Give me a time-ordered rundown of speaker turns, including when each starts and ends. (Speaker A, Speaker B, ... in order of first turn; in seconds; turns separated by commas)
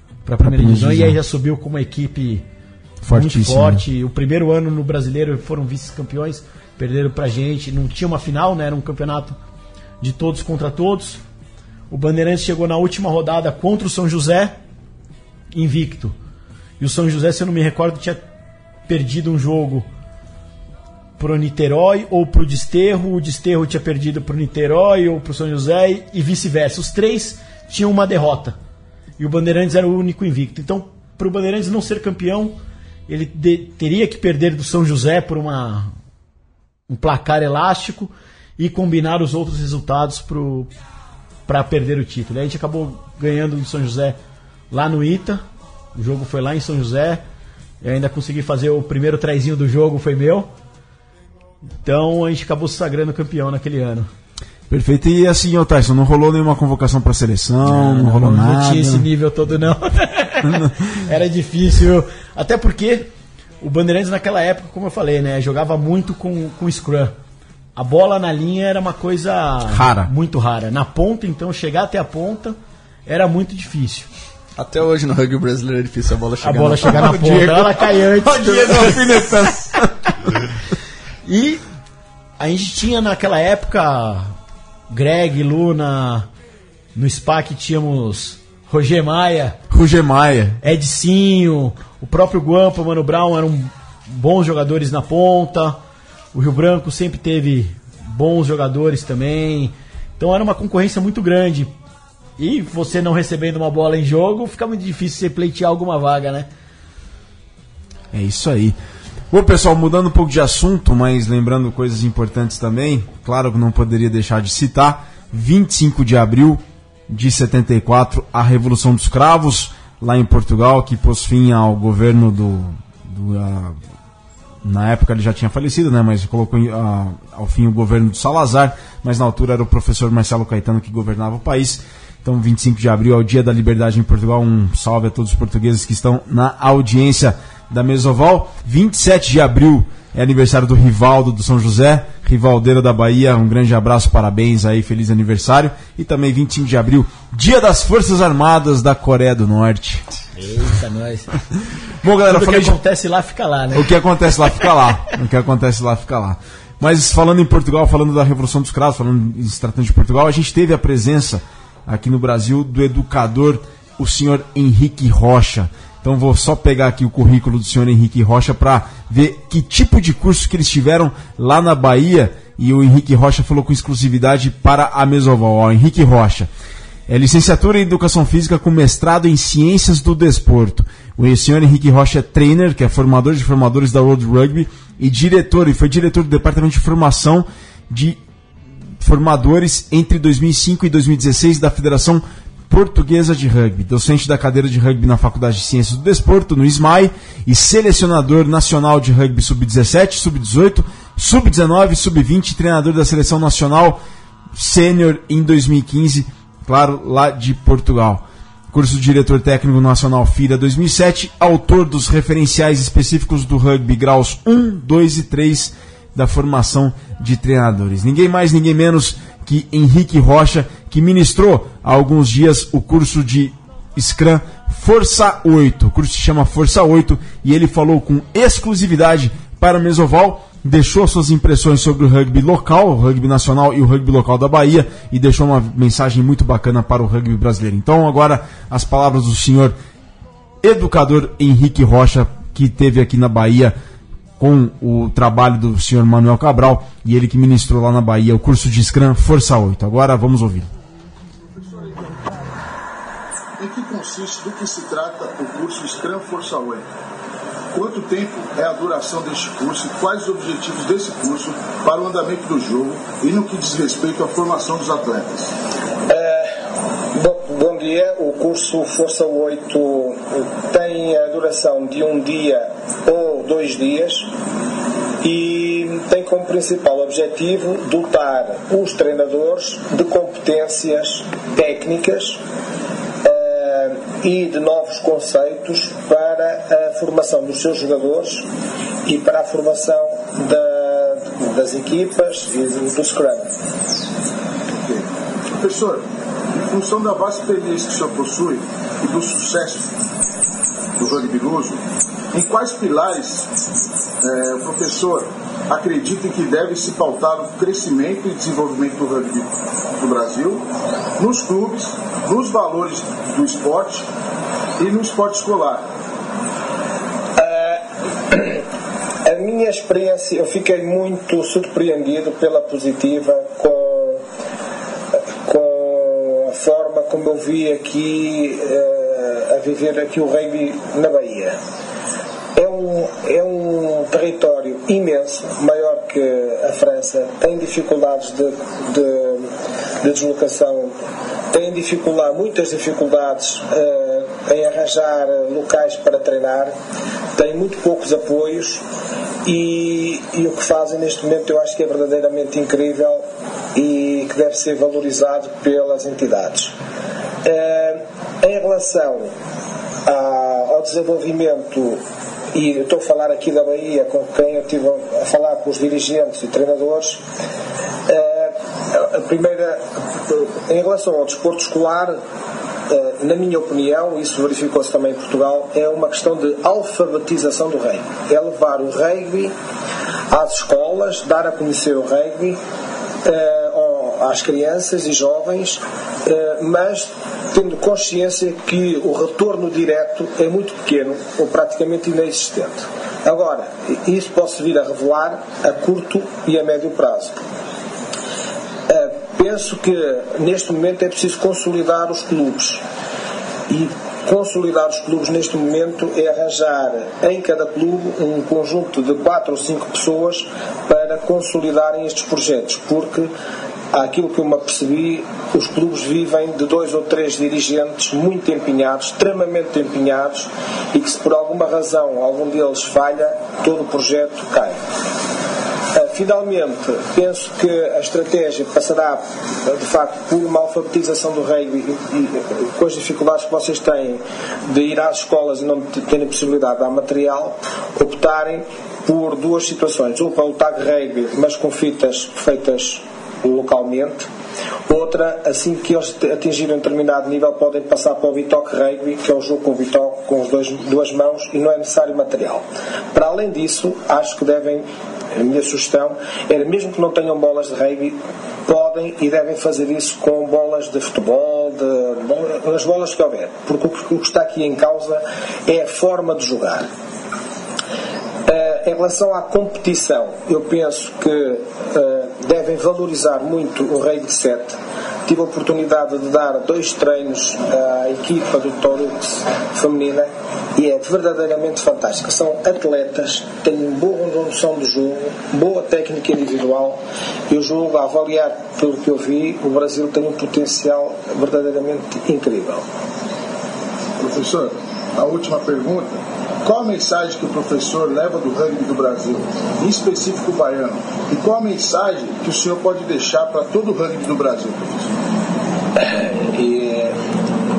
Speaker A: 0.2-2.4, Speaker B: 0.4-1.2, Speaker B: 3.0-3.8, Speaker A: 3.1-9.4, Speaker A: 10.0-11.2, Speaker A: 11.9-14.6, Speaker A: 15.5-16.1, Speaker A: 16.8-18.2, Speaker A: 18.9-19.9, Speaker A: 21.2-28.6, Speaker A: 29.2-35.9, Speaker A: 36.9-40.7, Speaker A: 41.5-44.2, Speaker A: 44.7-47.2, Speaker A: 47.8-50.5, Speaker A: 51.8-54.1, Speaker B: 54.7-59.1, Speaker A: 57.6-67.1, Speaker B: 60.4-60.8, Speaker A: 67.8-74.1, Speaker B: 69.7-70.1, Speaker C: 74.6-77.1, Speaker A: 76.4-79.5, Speaker B: 76.8-80.0, Speaker A: 81.2-81.6, Speaker A: 82.4-84.3, Speaker A: 84.9-86.3, Speaker A: 86.9-89.6, Speaker B: 89.7-90.6, Speaker A: 90.6-95.8, Speaker A: 96.3-101.7, Speaker A: 102.4-106.5, Speaker B: 108.1-108.8, Speaker B: 109.3-123.8, Speaker B: 124.6-150.0, Speaker A: 150.3-151.4, Speaker B: 152.0-152.8, Speaker A: 152.2-153.9, Speaker B: 153.7-176.5, Speaker B: 177.1-188.2, Speaker B: 189.0-204.0, Speaker B: 204.5-239.8, Speaker B: 240.6-243.7, Speaker B: 244.4-250.7, Speaker D: 251.6-252.2, Speaker D: 253.6-256.9, Speaker D: 257.7-265.5, Speaker E: 266.1-266.5, Speaker E: 267.1-274.3, Speaker E: 275.2-282.4, Speaker E: 283.2-288.5, Speaker E: 289.1-293.5, Speaker D: 294.8-299.9, Speaker D: 301.0-303.5, Speaker D: 304.2-310.6, Speaker D: 311.2-314.1, Speaker D: 314.8-315.8, Speaker E: 317.4-318.6, Speaker E: 319.2-324.2, Speaker E: 325.4-331.6, Speaker E: 332.5-340.9, Speaker E: 341.5-346.7, Speaker E: 347.3-348.8, Speaker E: 349.4-356.7, Speaker E: 357.4-359.3, Speaker E: 360.0-362.0, Speaker E: 362.5-367.2, Speaker E: 368.1-372.2, Speaker E: 372.9-379.5, Speaker E: 380.3-382.6, Speaker E: 383.2-397.4, Speaker E: 398.9-402.8, Speaker E: 403.7-413.3, Speaker E: 413.9-424.8, Speaker E: 425.9-444.3, Speaker E: 444.9-466.9, Speaker E: 468.5-492.8, Speaker D: 494.2-505.2, Speaker E: 505.9-507.2